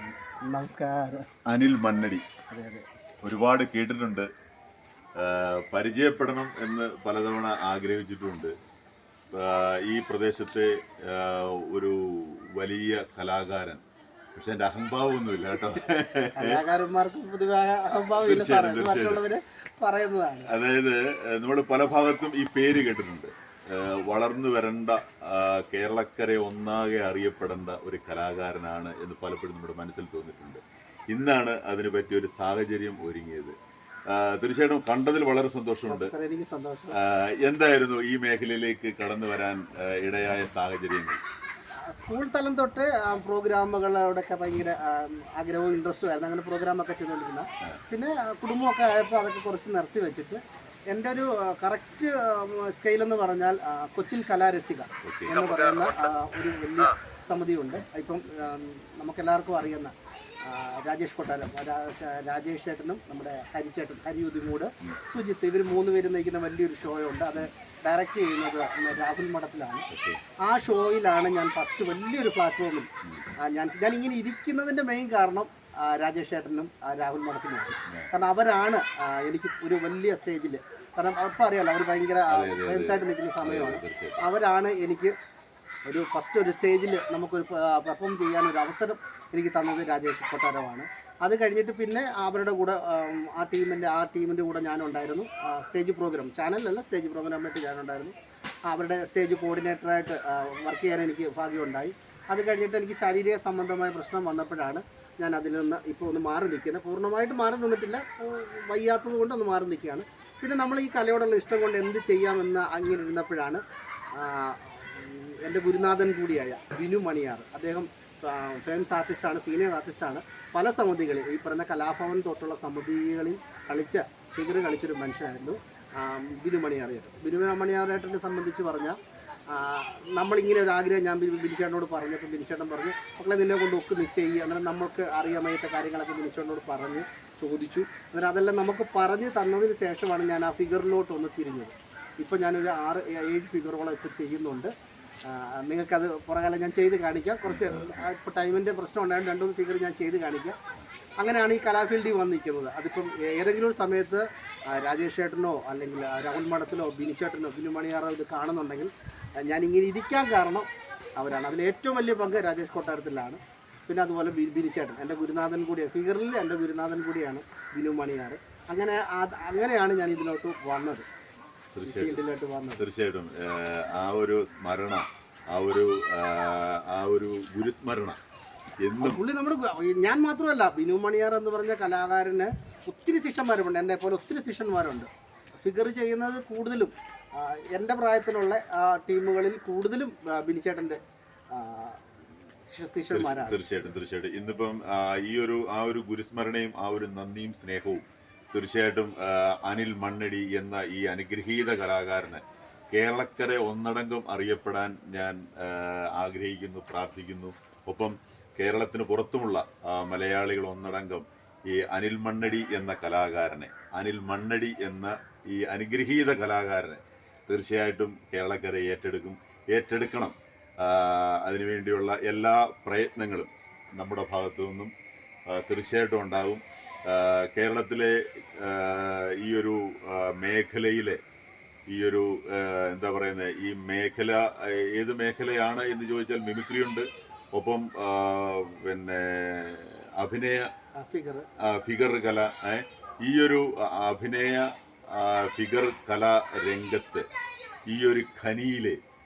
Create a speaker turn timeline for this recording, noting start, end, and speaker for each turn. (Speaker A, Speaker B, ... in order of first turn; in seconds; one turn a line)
Speaker A: 0.4-1.3
Speaker B: 1.5-2.2
Speaker A: 2.5-2.9
Speaker B: 3.2-4.3
Speaker B: 5.2-8.5
Speaker B: 9.3-13.8
Speaker B: 14.3-16.6
Speaker A: 16.4-20.5
Speaker B: 18.2-19.2
Speaker B: 20.5-33.5
Speaker B: 34.1-36.1
Speaker A: 35.9-37.0
Speaker B: 37.0-41.2
Speaker A: 41.9-69.9
Speaker B: 55.0-55.4
Speaker B: 69.9-70.2
Speaker A: 70.4-72.9
Speaker A: 73.4-85.1
Speaker B: 82.3-84.3
Speaker A: 85.9-98.1
Speaker A: 98.7-113.6
Speaker A: 114.2-129.0
Speaker A: 129.5-144.7
Speaker A: 145.3-150.6
Speaker B: 147.4-148.1
Speaker A: 151.2-171.1
Speaker B: 171.7-172.2
Speaker A: 171.8-172.8
Speaker B: 172.8-178.2
Speaker B: 178.8-179.2
Speaker A: 179.0-185.1
Speaker A: 185.6-191.0
Speaker A: 191.5-192.1
Speaker A: 192.6-193.6
Speaker B: 193.1-224.9
Speaker B: 225.5-231.2
Speaker B: 231.9-240.7
Speaker A: 241.0-241.5
Speaker B: 241.6-247.3
Speaker B: 247.9-249.0